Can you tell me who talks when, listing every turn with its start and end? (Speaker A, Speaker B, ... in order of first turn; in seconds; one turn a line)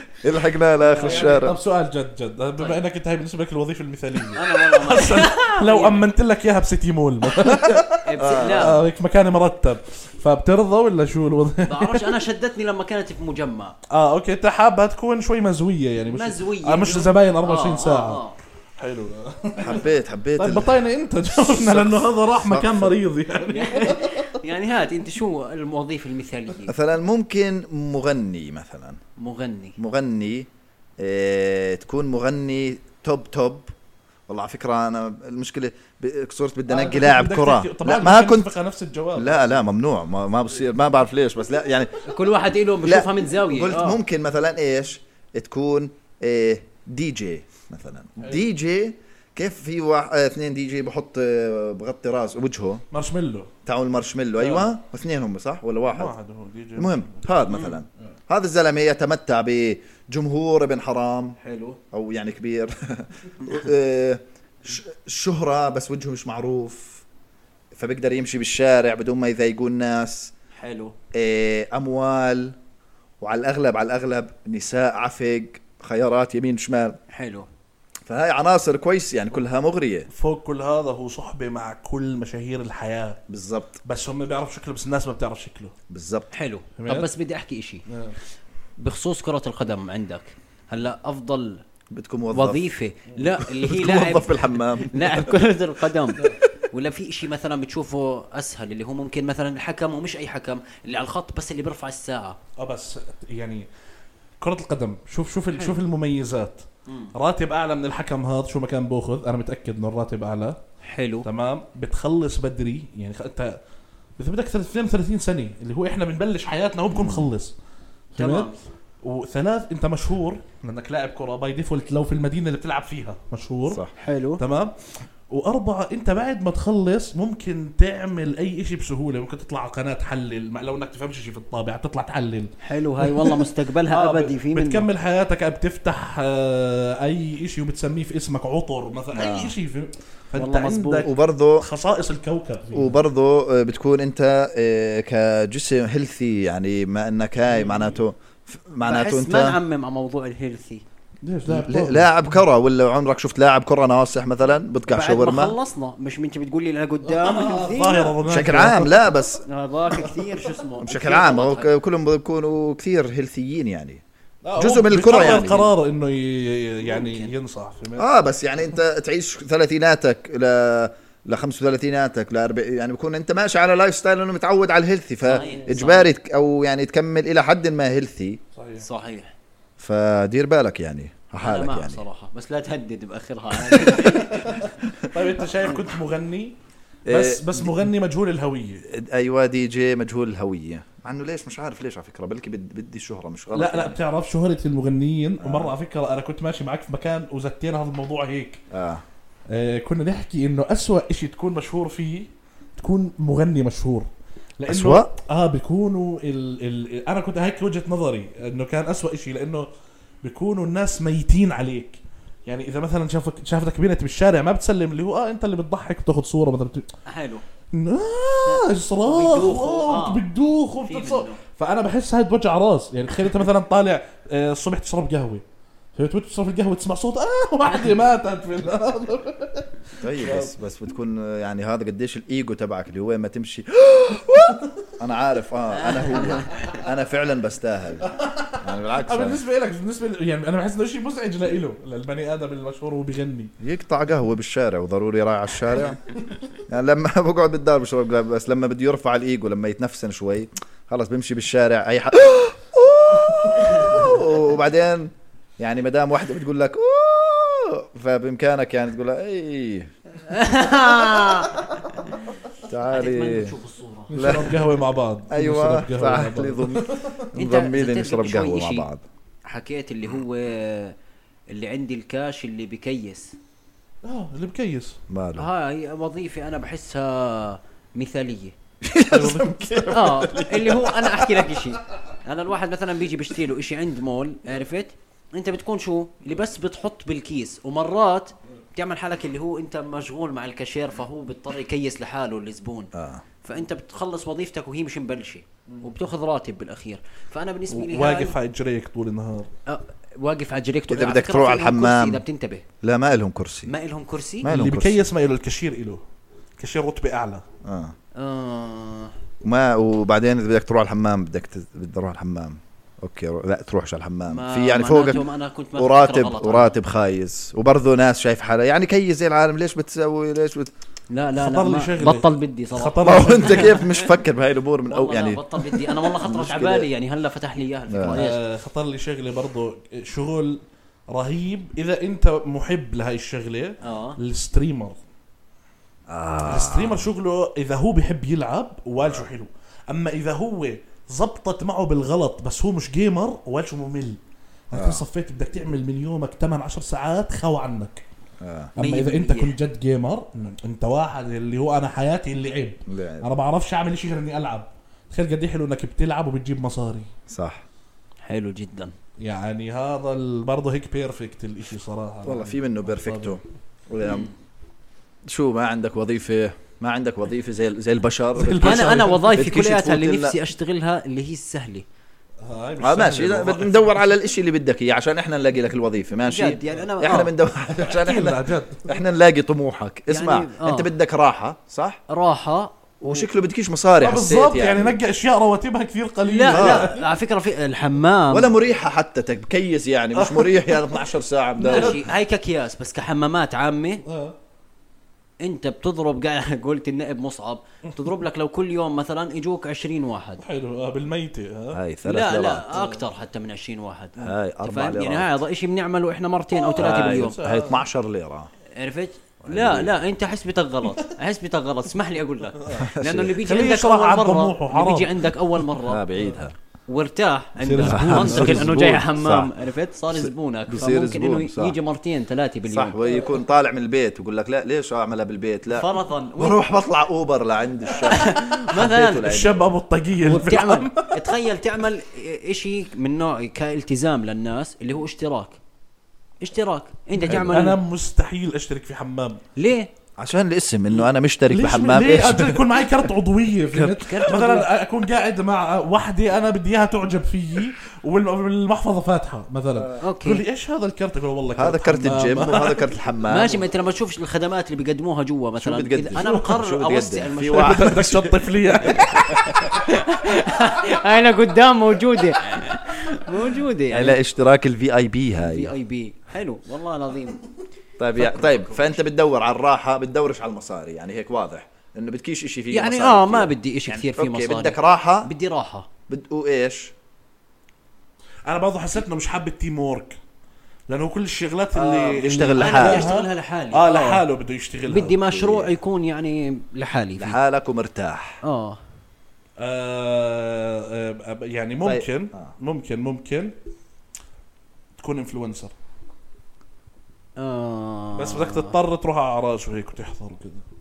Speaker A: 0.2-1.6
Speaker B: 0.8-1.4
Speaker C: 1.0-12.2
Speaker B: 4.3-6.0
Speaker A: 7.5-8.8
Speaker B: 8.0-8.8
Speaker B: 11.6-13.8
Speaker C: 13.9-18.2
Speaker B: 16.1-18.4
Speaker C: 18.8-19.9
Speaker A: 19.6-20.8
Speaker C: 20.4-24.3
Speaker A: 21.4-22.9
Speaker B: 23.5-26.7
Speaker A: 26.7-29.0
Speaker B: 29.2-29.8
Speaker A: 29.8-33.7
Speaker A: 34.3-38.5
Speaker C: 36.7-39.6
Speaker A: 39.1-42.0
Speaker B: 42.0-44.0
Speaker A: 42.8-52.8
Speaker C: 52.9-53.5
Speaker A: 53.6-56.1
Speaker C: 54.4-54.7
Speaker C: 55.9-57.3
Speaker A: 56.8-61.4
Speaker B: 61.4-61.8
Speaker A: 61.9-67.0
Speaker A: 67.7-70.3
Speaker B: 70.6-70.9
Speaker A: 71.1-72.5
Speaker A: 73.2-77.0
Speaker B: 77.1-77.5
Speaker A: 78.0-80.1
Speaker C: 80.1-83.2
Speaker A: 83.3-83.8
Speaker C: 83.8-85.7
Speaker A: 85.9-86.3
Speaker B: 86.3-87.8
Speaker C: 86.8-87.1
Speaker C: 87.9-88.2
Speaker B: 88.8-91.6
Speaker A: 91.9-92.7
Speaker B: 92.3-102.4
Speaker A: 93.5-95.3
Speaker C: 102.6-103.7
Speaker C: 104.4-110.6
Speaker B: 105.5-105.8
Speaker B: 106.9-107.1
Speaker B: 110.8-111.3
Speaker C: 111.2-113.6
Speaker C: 114.2-117.5
Speaker C: 118.1-123.8
Speaker B: 118.2-118.5
Speaker B: 124.0-124.4
Speaker C: 124.4-124.7
Speaker C: 125.3-143.0
Speaker B: 132.6-134.8
Speaker A: 139.1-139.5
Speaker B: 140.3-141.1
Speaker A: 141.0-141.7
Speaker A: 142.7-149.6
Speaker C: 147.5-148.0
Speaker B: 148.8-150.8
Speaker C: 151.2-152.4
Speaker A: 151.5-155.5
Speaker B: 154.9-158.2
Speaker C: 157.1-159.1
Speaker A: 158.3-159.4
Speaker B: 159.4-161.7
Speaker A: 160.8-164.0
Speaker C: 164.4-168.1
Speaker A: 164.6-165.6
Speaker B: 165.1-165.7
Speaker B: 166.8-167.3
Speaker A: 168.0-178.4
Speaker B: 175.2-176.1
Speaker C: 178.5-178.8
Speaker B: 178.8-179.3
Speaker A: 179.8-182.0
Speaker B: 181.4-184.6
Speaker A: 183.7-184.2
Speaker C: 185.1-186.5
Speaker A: 187.1-187.9
Speaker C: 187.1-188.8
Speaker A: 188.9-194.0
Speaker C: 193.5-198.6
Speaker A: 195.4-195.7
Speaker A: 198.7-199.0
Speaker C: 199.5-209.7
Speaker A: 204.7-205.1
Speaker C: 210.2-216.8
Speaker B: 217.1-217.4
Speaker C: 217.7-225.4
Speaker B: 218.4-220.2
Speaker B: 220.8-221.4
Speaker C: 225.9-230.5
Speaker A: 230.0-238.1
Speaker B: 235.7-236.8
Speaker C: 238.1-243.5
Speaker A: 238.6-239.4
Speaker A: 243.6-246.0
Speaker A: 246.7-259.9
Speaker B: 260.3-262.2
Speaker A: 262.6-263.5
Speaker B: 262.9-264.1
Speaker C: 264.1-267.2
Speaker A: 264.1-264.6
Speaker A: 265.3-269.0
Speaker B: 267.3-268.9
Speaker B: 269.4-270.9
Speaker B: 271.5-273.3
Speaker C: 274.0-275.0
Speaker A: 275.1-275.5
Speaker B: 275.4-278.5
Speaker A: 278.8-281.2
Speaker C: 279.1-279.6
Speaker B: 279.9-292.9
Speaker A: 292.9-293.2
Speaker B: 293.4-298.3
Speaker C: 297.7-299.5
Speaker B: 299.7-302.6
Speaker A: 300.9-302.2
Speaker A: 302.8-303.7
Speaker B: 303.7-304.5
Speaker A: 304.4-305.1
Speaker C: 304.4-306.0
Speaker C: 306.6-307.4
Speaker A: 307.6-307.9
Speaker B: 308.2-309.1
Speaker A: 309.4-320.7
Speaker B: 314.3-316.7
Speaker B: 321.1-324.0
Speaker C: 321.4-323.8
Speaker A: 323.0-326.9
Speaker B: 324.9-328.4
Speaker A: 327.9-328.2
Speaker C: 328.1-334.9
Speaker B: 333.8-334.2
Speaker A: 336.1-337.1
Speaker C: 336.4-344.2
Speaker A: 339.0-339.3
Speaker C: 344.7-348.0
Speaker A: 344.7-345.0
Speaker A: 348.4-348.7
Speaker C: 348.7-357.1
Speaker B: 348.8-349.6
Speaker A: 352.9-353.3
Speaker A: 357.3-357.6
Speaker B: 358.2-358.9
Speaker C: 359.2-363.4
Speaker A: 362.2-364.3
Speaker B: 364.0-364.3
Speaker A: 365.3-370.4
Speaker C: 368.4-369.4
Speaker B: 368.6-371.8
Speaker C: 372.4-374.0
Speaker A: 372.8-382.0
Speaker B: 376.3-377.3
Speaker C: 377.7-378.9
Speaker B: 380.1-380.9
Speaker B: 382.1-383.3
Speaker A: 383.0-385.0
Speaker C: 384.0-387.0
Speaker B: 386.2-388.5
Speaker A: 386.5-386.9
Speaker A: 388.3-392.0
Speaker C: 390.1-391.0
Speaker B: 391.6-394.0
Speaker C: 391.6-392.0
Speaker C: 394.0-394.3
Speaker B: 395.4-400.4
Speaker C: 400.4-401.8
Speaker A: 401.7-402.8
Speaker B: 402.0-407.4
Speaker C: 402.7-403.0
Speaker A: 404.2-405.4
Speaker C: 406.6-407.8
Speaker A: 406.8-408.5
Speaker B: 408.8-416.0
Speaker A: 409.4-409.9
Speaker C: 412.6-412.9
Speaker A: 412.8-413.4
Speaker C: 413.4-415.4
Speaker A: 415.9-416.5
Speaker B: 416.9-423.2
Speaker C: 417.6-419.0
Speaker A: 417.8-419.5
Speaker A: 420.1-421.8
Speaker A: 422.7-425.9
Speaker B: 425.7-426.6
Speaker A: 426.4-429.6
Speaker B: 428.0-429.3
Speaker C: 429.2-431.2
Speaker B: 430.2-435.6
Speaker B: 436.4-437.8
Speaker C: 437.2-439.4
Speaker A: 437.3-437.5
Speaker B: 439.6-439.9
Speaker A: 440.2-442.7
Speaker C: 441.5-452.9
Speaker B: 443.8-444.7
Speaker B: 450.0-450.4
Speaker A: 451.6-453.6
Speaker B: 453.2-458.0
Speaker A: 455.6-459.6
Speaker C: 456.1-456.5
Speaker C: 457.5-459.7
Speaker B: 459.5-464.2
Speaker A: 463.9-465.7
Speaker B: 465.4-467.4
Speaker A: 468.0-475.3
Speaker B: 468.1-469.0
Speaker B: 472.7-475.9
Speaker A: 476.1-476.9
Speaker C: 478.4-480.2
Speaker C: 480.9-485.2
Speaker B: 481.7-484.2
Speaker A: 482.2-483.1
Speaker B: 484.9-487.4
Speaker A: 485.2-485.7
Speaker A: 487.2-488.4
Speaker B: 488.4-488.8
Speaker C: 489.6-493.5
Speaker A: 491.8-492.5
Speaker C: 495.0-495.7
Speaker B: 497.4-498.8
Speaker C: 498.1-500.6